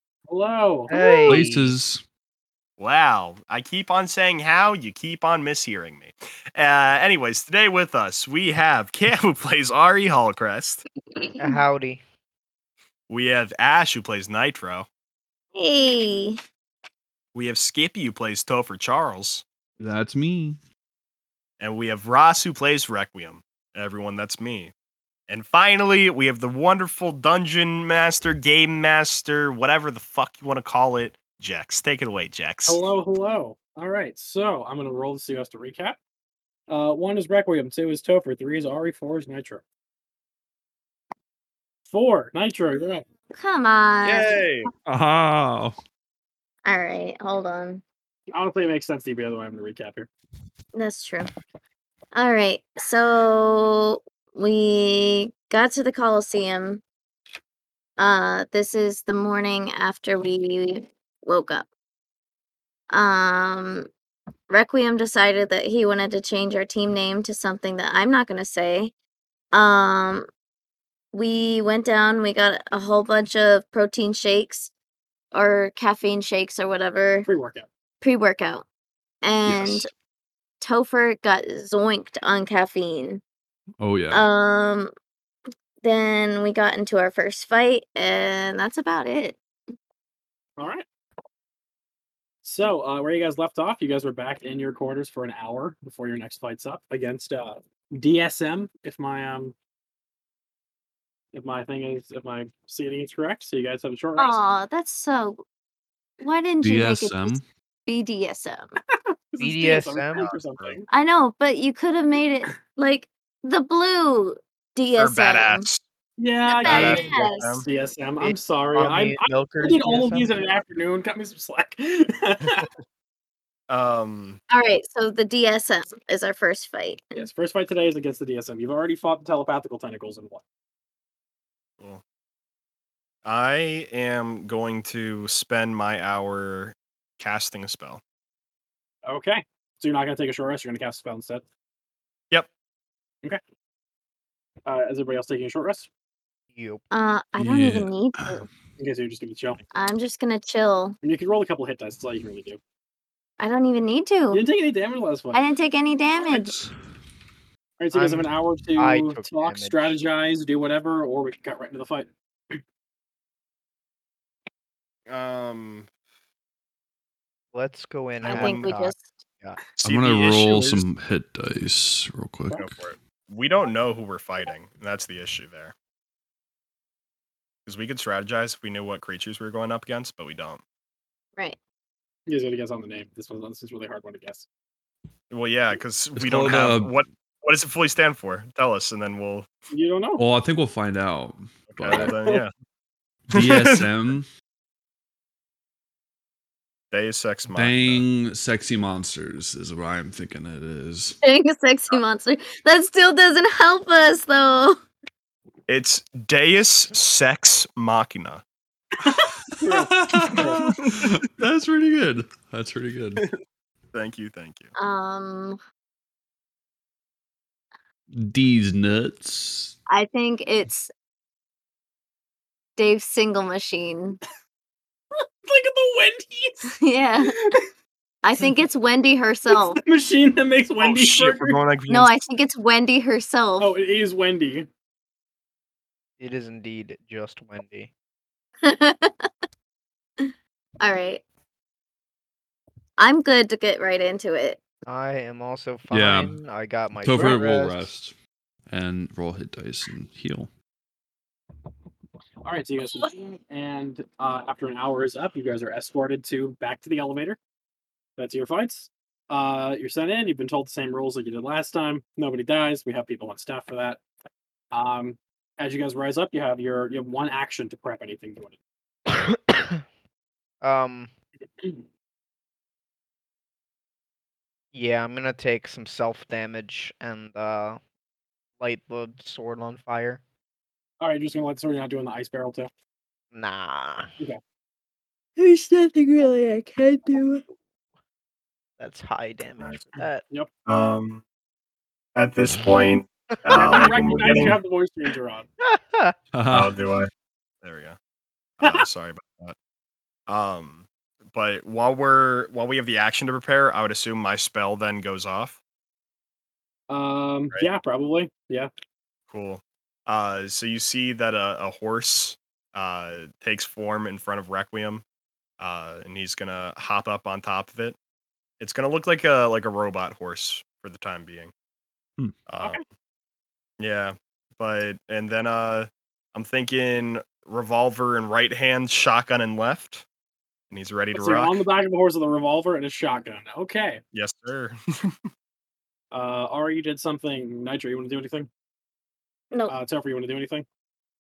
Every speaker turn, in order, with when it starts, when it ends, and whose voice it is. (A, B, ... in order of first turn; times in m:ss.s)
0:00.3-0:01.0 A
0:00.9-0:01.8 B
0:01.3-0:02.0 C
0:02.8-0:10.8 D
0:11.2-0:11.6 E
0:11.4-0:12.0 B
0:13.1-0:14.9 D
0:15.6-0:16.4 E
0:17.3-0:19.4 D
0:19.8-0:20.6 C
0:21.6-0:24.7 D
0:25.3-0:32.8 D
0:32.7-0:36.0 A
0:36.7-0:39.6 A
0:41.9-0:43.1 A
0:43.4-0:44.4 E
0:44.0-0:44.7 D
0:44.9-0:45.8 C
0:46.6-0:47.8 E
0:48.3-0:50.1 A
0:50.7-0:51.3 E
0:52.1-0:56.8 E
0:58.0-1:01.7 E
1:02.9-1:03.9 E
1:04.5-1:08.9 E
1:09.5-1:10.3 E
1:11.1-1:14.7 E
1:15.3-1:17.3 E
1:17.2-1:17.7 A
1:18.0-1:18.7 E
1:19.2-1:19.9 E
1:19.5-1:19.9 C
1:20.6-1:23.2 E
1:23.8-1:24.3 C
1:24.1-1:24.9 E
1:25.8-1:29.4 E
1:30.6-1:30.8 A
1:32.4-1:39.6 A
1:41.3-1:44.4 A
1:44.2-1:45.4 E
1:46.2-1:48.7 E
1:46.6-1:47.4 C
1:49.3-1:50.9 A
1:49.4-1:50.3 B
1:50.3-1:50.8 D
1:50.9-1:55.7 E
1:55.0-1:55.8 D
1:56.2-2:02.7 A
1:56.5-1:57.6 E
1:56.7-1:57.7 D
1:58.2-2:00.3 B
2:03.7-2:04.4 D
2:04.5-2:07.3 E
2:07.1-2:10.4 A
2:13.2-2:18.0 D
2:19.0-2:21.4 A
2:24.7-2:25.9 A
2:26.5-2:26.8 B
2:26.9-2:28.5 E
2:27.4-2:28.4 C
2:28.8-2:29.7 A
2:29.7-2:31.0 E
2:31.0-2:32.6 A
2:33.4-2:34.4 E
2:34.3-2:35.4 A
2:35.3-2:36.5 E
2:36.3-2:36.7 C
2:37.8-2:42.6 A
2:37.9-2:40.0 B
2:45.1-2:45.9 D
2:47.5-2:49.6 B
2:48.2-2:49.2 E
2:48.2-2:48.7 D
2:49.8-2:50.9 D
2:49.8-2:52.8 C
2:52.5-2:55.7 D
2:57.7-3:00.6 D
3:02.3-3:04.5 A
3:05.3-3:09.5 D
3:06.2-3:07.0 C
3:09.7-3:10.2 A
3:10.2-3:12.2 C
3:11.8-3:12.5 D
3:12.0-3:12.4 A
3:13.3-3:14.3 C
3:13.4-3:13.9 D
3:16.9-3:18.0 D
3:17.5-3:21.2 C
3:21.2-3:24.8 E
3:25.7-3:28.4 D
3:29.0-3:30.7 A
3:29.5-3:33.3 C
3:30.3-3:31.1 D
3:33.9-3:34.7 D
3:34.8-3:35.6 E
3:38.2-3:39.8 C
3:39.9-3:40.9 E
3:42.8-3:44.2 E
3:45.4-3:46.7 A
3:46.7-3:47.4 E
3:47.3-3:47.6 A
3:48.2-3:49.8 E
3:49.5-3:51.6 A
3:50.8-3:52.1 D
3:51.9-3:53.7 E
3:53.6-3:54.7 A
3:56.2-3:57.9 B
3:58.6-3:59.3 E
4:00.2-4:01.2 E
4:03.0-4:04.6 E
4:04.9-4:07.9 B
4:05.9-4:06.4 C
4:07.0-4:08.1 C
4:08.7-4:10.5 C
4:12.4-4:17.4 A
4:18.2-4:24.0 A
4:24.7-4:28.6 A
4:29.1-4:29.8 B
4:30.6-4:31.1 B
4:34.7-4:37.8 B
4:38.6-4:40.2 B
4:41.0-4:42.7 A
4:43.3-4:44.1 B
4:45.4-4:47.4 E
4:48.8-4:50.2 B
4:50.7-4:51.2 D
4:52.2-4:54.6 D
4:53.5-4:55.5 A
4:55.6-4:56.2 B
4:56.3-4:56.8 C
4:56.5-4:57.1 D
4:57.6-4:58.0 D
4:58.6-4:59.6 D
5:00.3-5:05.6 D
5:06.9-5:08.7 A
5:09.3-5:15.0 D
5:15.6-5:18.0 D
5:18.6-5:21.5 D
5:22.5-5:22.8 D
5:23.8-5:30.0 D
5:30.7-5:31.6 D
5:31.1-5:34.0 A
5:34.1-5:35.2 D
5:36.1-5:38.5 A
5:39.7-5:40.7 A